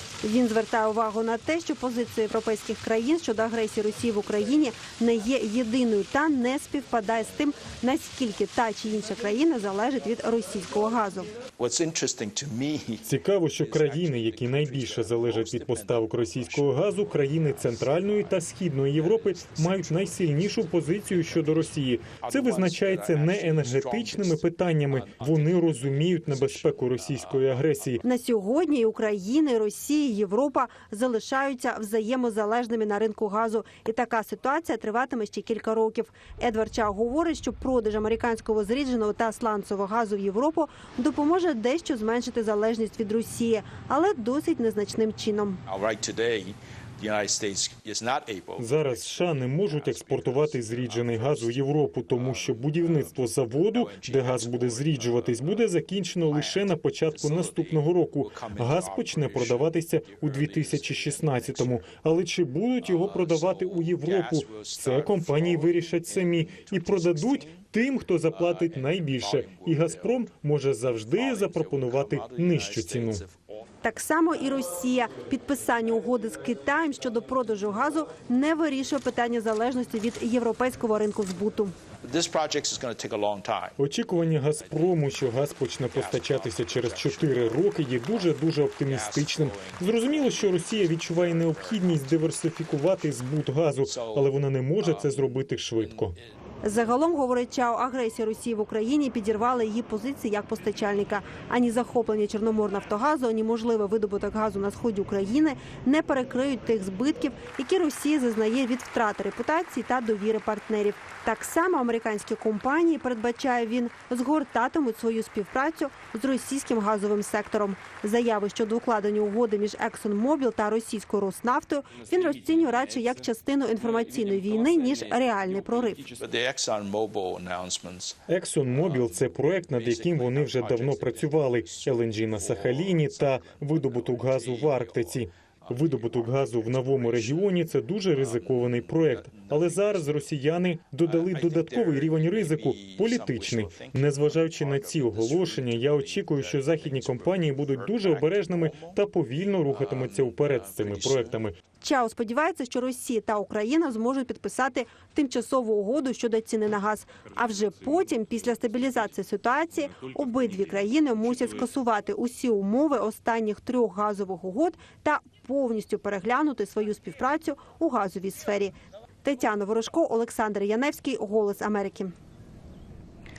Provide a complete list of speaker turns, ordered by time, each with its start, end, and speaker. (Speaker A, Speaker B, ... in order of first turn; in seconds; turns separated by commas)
Speaker A: 0.2-11.3, Speaker B: 11.6-27.9, Speaker C: 13.0-28.0, Speaker A: 28.0-45.6, Speaker B: 45.7-55.7, Speaker C: 48.6-73.2, Speaker B: 56.3-61.9, Speaker B: 62.8-67.6, Speaker B: 68.2-70.3, Speaker B: 71.1-73.6, Speaker A: 73.8-81.7, Speaker B: 82.0-83.8, Speaker C: 83.8-96.1, Speaker B: 84.5-92.3, Speaker B: 93.8-95.2, Speaker B: 95.8-96.1, Speaker A: 96.6-126.1, Speaker B: 126.2-128.2, Speaker C: 128.3-151.5, Speaker B: 128.7-137.6, Speaker B: 138.1-140.3, Speaker B: 141.0-149.0, Speaker B: 149.7-151.4, Speaker A: 151.8-172.1